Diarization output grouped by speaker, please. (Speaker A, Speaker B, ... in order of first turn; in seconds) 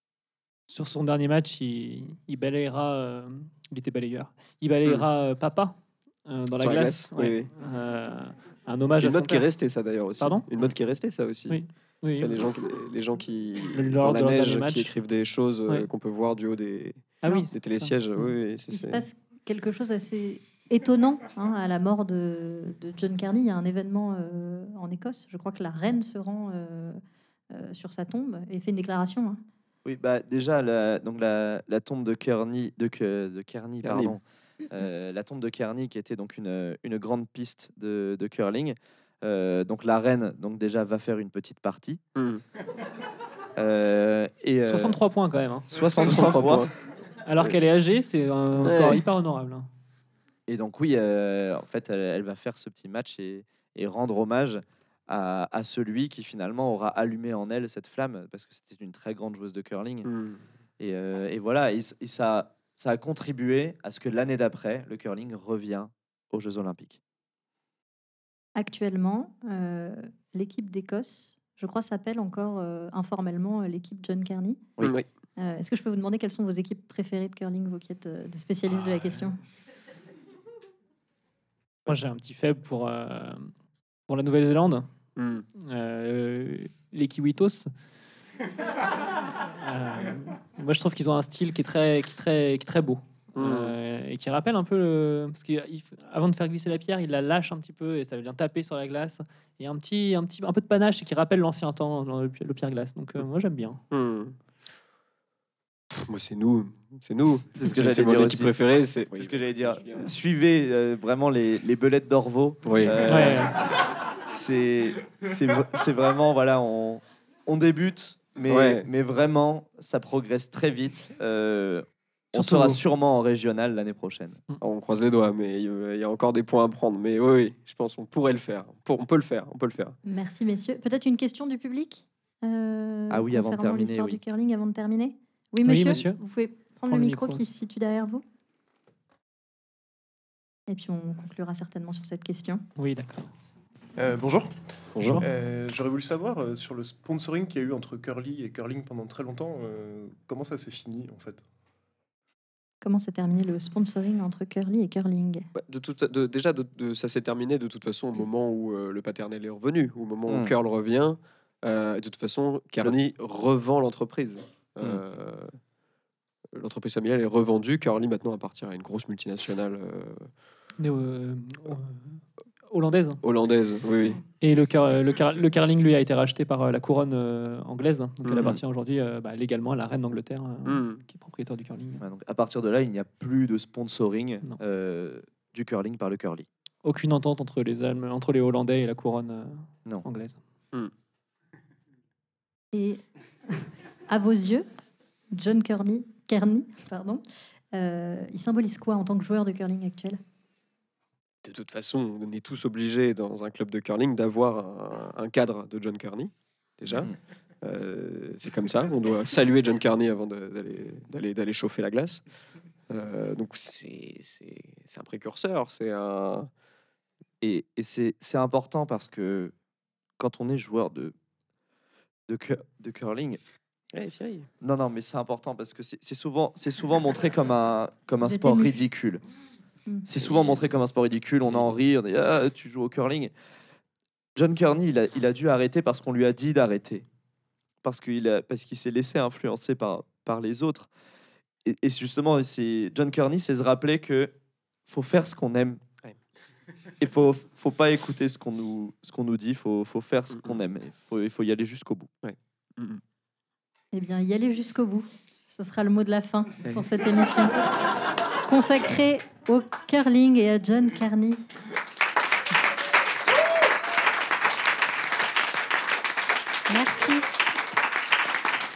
Speaker A: 0.7-9.5, 10.2-10.5, 11.5-12.4, 13.7-14.9, 17.2-18.3, 44.6-46.4, 47.2-49.7, 81.8-83.5, 84.1-84.9, 85.5-87.7, 89.5-103.8, 113.1-113.5, 122.3-122.8, 135.6-136.2, 136.9-137.4, 142.8-143.3, 145.0-145.2, 170.8-173.2, 174.4-182.0, 186.8-190.4
Speaker B: 6.5-7.5, 9.0-11.6, 12.2-19.0, 33.8-34.2, 42.1-42.4, 46.0-46.7, 48.6-49.0, 60.0-60.4, 74.8-75.1, 85.2-85.5, 93.3-93.8, 103.9-104.4, 105.9-110.1, 112.6-113.3, 118.5-118.9, 124.6-130.0, 144.9-145.2, 155.5-165.5, 166.5-170.3, 173.2-174.2, 178.2-178.6, 180.6-181.0, 201.4-212.2, 212.9-216.5, 223.9-224.5, 230.2-230.6, 231.5-231.8, 250.3-250.6, 252.2-253.0
Speaker C: 18.7-27.0, 27.5-29.4, 68.5-74.6, 75.4-79.4, 130.0-138.2, 140.7-142.7, 152.8-155.5, 192.7-194.7, 195.3-200.2, 228.2-228.8, 253.9-257.6, 258.5-261.4, 266.7-267.3
Speaker D: 29.8-42.0, 43.6-45.0, 45.7-46.6, 50.5-60.1, 60.8-67.0, 107.6-108.5, 109.1-113.5, 114.2-124.4, 133.1-134.2, 160.3-160.5, 182.0-186.5, 217.4-219.5, 220.2-221.1, 222.3-223.4, 224.6-229.2, 230.1-233.3, 234.3-237.1, 237.8-240.9, 241.6-244.3, 244.9-245.8, 247.0-252.1
Speaker E: 144.0-151.4